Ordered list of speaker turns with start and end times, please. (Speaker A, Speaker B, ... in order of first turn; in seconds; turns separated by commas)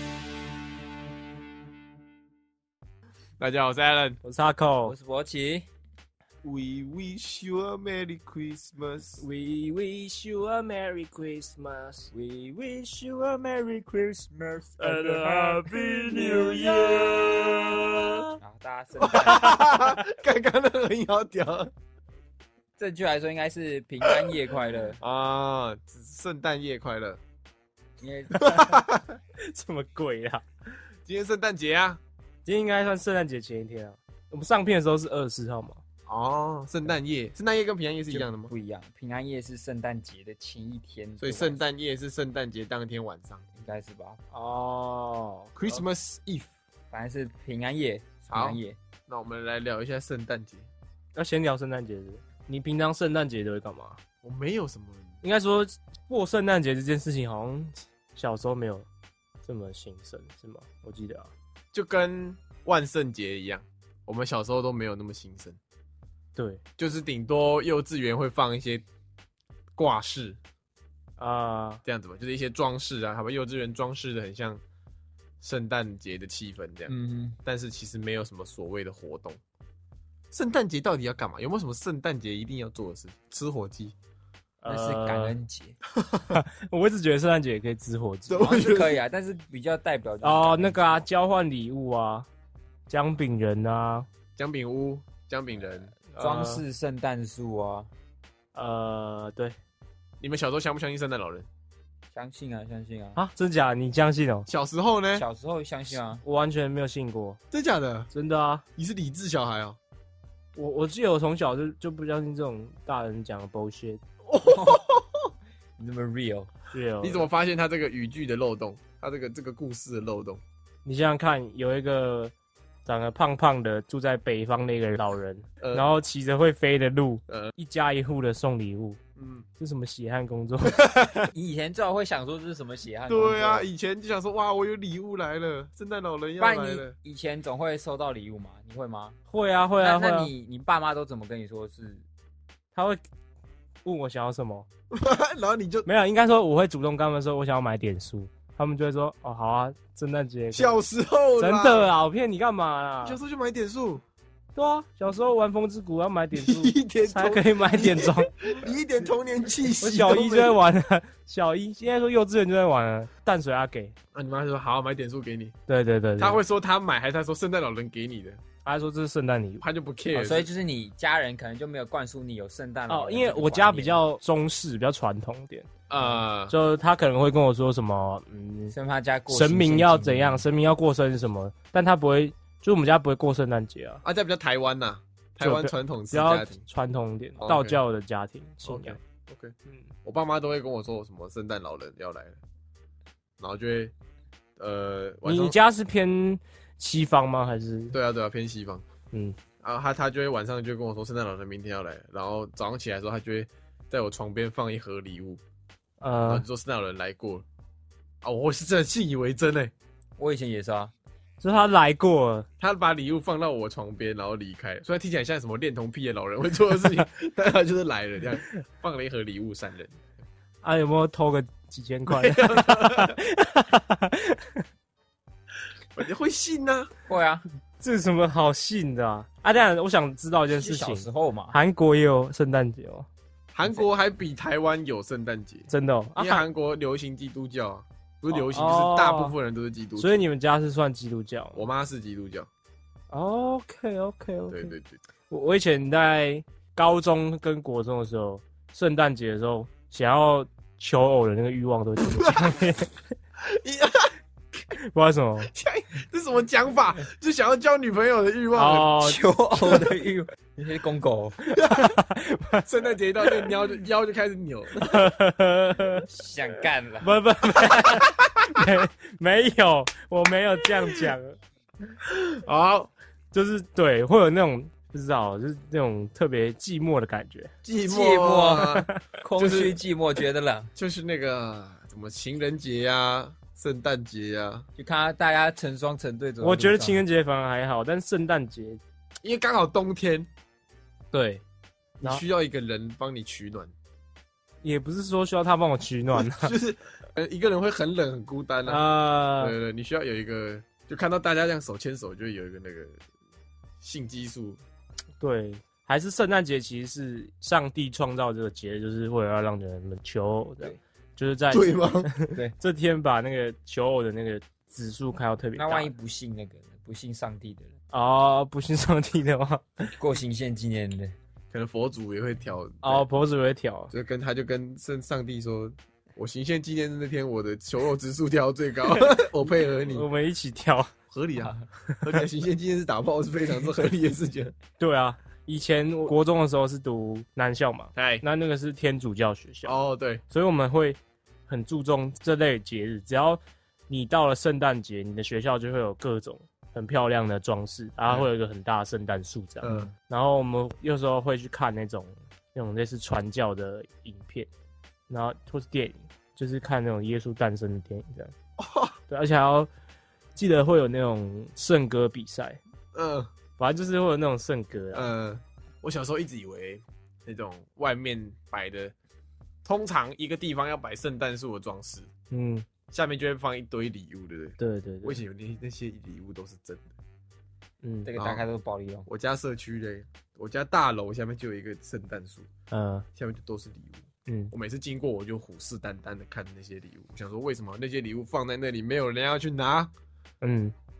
Speaker A: 3.4-4.2, Speaker B: 4.2-4.9, Speaker C: 4.8-5.7, Speaker A: 6.4-9.2, Speaker B: 9.2-12.1, Speaker C: 12.1-15.1, Speaker B: 14.8-17.1, Speaker A: 14.9-18.4, Speaker C: 16.1-17.4, Speaker C: 18.4-19.8, Speaker A: 19.0-21.7, Speaker C: 22.8-25.0, Speaker A: 24.0-24.4, Speaker A: 25.0-27.2, Speaker C: 28.0-28.7, Speaker A: 28.3-29.1, Speaker B: 29.4-30.4, Speaker A: 31.1-32.0, Speaker B: 32.5-35.8, Speaker A: 36.1-38.5, Speaker C: 38.1-41.6, Speaker A: 41.2-43.4, Speaker C: 43.5-44.2, Speaker B: 44.3-45.5, Speaker A: 45.5-46.5, Speaker C: 46.9-48.8, Speaker A: 48.3-50.7, Speaker B: 51.1-54.0, Speaker A: 54.2-55.1, Speaker B: 55.2-58.9, Speaker B: 59.4-61.3, Speaker A: 61.7-65.6, Speaker B: 66.3-66.6, Speaker A: 66.8-68.8, Speaker A: 69.8-70.4, Speaker B: 71.2-71.8, Speaker A: 71.8-74.6, Speaker A: 75.4-76.9, Speaker C: 76.9-77.4, Speaker A: 77.4-79.4, Speaker A: 80.3-83.9, Speaker B: 84.6-85.3, Speaker C: 84.7-85.8, Speaker B: 86.3-88.5, Speaker A: 88.3-89.0, Speaker C: 88.4-90.9, Speaker B: 90.2-92.3, Speaker B: 92.9-94.1, Speaker A: 94.3-95.9, Speaker C: 95.9-97.9, Speaker B: 96.1-96.6, Speaker B: 98.5-99.5, Speaker A: 100.2-101.5, Speaker C: 102.1-103.2, Speaker B: 103.2-104.5, Speaker A: 104.5-105.2, Speaker C: 105.1-106.2, Speaker B: 106.2-107.4, Speaker A: 107.5-108.1, Speaker B: 108.1-108.6, Speaker A: 108.8-109.8, Speaker B: 110.5-114.0, Speaker A: 114.3-115.0, Speaker C: 114.4-114.8, Speaker C: 115.8-116.5, Speaker B: 116.7-117.3, Speaker A: 117.0-120.4, Speaker B: 120.8-122.3, Speaker B: 122.8-129.0, Speaker A: 125.6-125.9, Speaker A: 129.2-129.4, Speaker B: 129.6-130.9, Speaker A: 130.7-131.3, Speaker C: 131.3-133.7, Speaker A: 133.1-136.9, Speaker C: 136.4-139.2, Speaker B: 139.3-140.3, Speaker C: 139.8-142.0, Speaker B: 142.7-143.0, Speaker B: 143.8-144.7, Speaker A: 144.9-145.9, Speaker B: 145.8-150.8, Speaker A: 150.5-151.9, Speaker B: 151.4-153.2, Speaker A: 153.0-154.0, Speaker B: 154.6-158.3, Speaker A: 156.3-160.6, Speaker B: 159.8-163.9, Speaker A: 164.1-165.5, Speaker B: 165.7-166.4, Speaker A: 166.2-168.4, Speaker B: 168.6-169.6, Speaker A: 169.6-170.5, Speaker C: 170.1-174.0, Speaker B: 172.9-175.7, Speaker A: 175.9-176.5, Speaker B: 176.5-178.7, Speaker C: 178.7-180.4, Speaker B: 179.3-184.0, Speaker A: 184.0-186.6, Speaker B: 185.4-189.0, Speaker A: 187.4-187.8, Speaker A: 188.6-189.5, Speaker A: 190.0-192.4, Speaker A: 193.4-193.9, Speaker A: 194.6-195.6, Speaker B: 195.2-198.0, Speaker A: 197.9-198.8, Speaker B: 199.1-199.4, Speaker A: 199.6-205.4, Speaker B: 206.0-206.4, Speaker A: 206.3-207.4, Speaker A: 208.2-209.7, Speaker C: 210.2-210.9, Speaker B: 211.4-212.5, Speaker A: 212.6-219.9, Speaker B: 220.6-224.6, Speaker A: 222.1-223.2, Speaker A: 225.9-226.9, Speaker C: 227.1-227.4, Speaker B: 227.8-233.1, Speaker C: 230.5-231.6, Speaker A: 233.5-240.2, Speaker B: 235.7-236.4, Speaker B: 238.3-239.3, Speaker B: 240.0-241.7, Speaker A: 241.5-242.5, Speaker B: 243.1-244.7, Speaker A: 244.5-244.9, Speaker B: 245.3-252.9, Speaker A: 252.0-252.6, Speaker A: 253.4-254.1, Speaker B: 254.7-255.5, Speaker A: 255.5-258.9, Speaker B: 258.5-259.2, Speaker C: 259.0-261.4, Speaker A: 261.6-261.9, Speaker B: 261.6-262.7, Speaker A: 262.6-265.1, Speaker B: 264.8-266.1, Speaker C: 266.1-267.7, Speaker B: 267.0-271.4, Speaker A: 267.7-268.6, Speaker A: 272.0-272.9, Speaker B: 273.3-277.5, Speaker A: 277.6-279.8, Speaker C: 277.8-280.7, Speaker A: 280.8-284.6, Speaker C: 284.8-287.0, Speaker B: 286.4-288.8, Speaker A: 289.2-290.3, Speaker B: 291.1-291.4, Speaker A: 292.0-293.7, Speaker B: 294.6-296.5, Speaker A: 296.3-298.9, Speaker B: 298.7-299.6, Speaker A: 299.4-303.0, Speaker A: 303.8-304.6, Speaker B: 305.2-315.9, Speaker A: 311.5-312.1, Speaker C: 315.6-317.7, Speaker B: 317.9-319.9, Speaker C: 320.0-321.1, Speaker A: 321.5-323.1, Speaker B: 322.8-323.9, Speaker A: 323.9-330.1, Speaker B: 329.9-330.9, Speaker A: 331.1-334.5, Speaker B: 331.9-332.2, Speaker B: 334.8-339.8, Speaker A: 337.9-338.2, Speaker A: 339.6-340.2, Speaker B: 340.3-354.5, Speaker A: 349.6-349.9, Speaker B: 355.1-358.3, Speaker A: 358.6-359.0, Speaker B: 359.1-359.7, Speaker B: 360.3-362.6, Speaker A: 362.9-363.3, Speaker B: 363.6-365.1, Speaker A: 364.9-368.9, Speaker A: 369.6-372.1, Speaker B: 372.3-372.7, Speaker A: 372.9-376.9, Speaker B: 374.6-375.2, Speaker B: 377.8-378.1, Speaker C: 378.0-379.1, Speaker A: 378.1-378.4, Speaker A: 379.1-382.5, Speaker B: 382.7-383.1, Speaker A: 383.1-389.9, Speaker B: 384.3-384.5, Speaker B: 390.4-390.7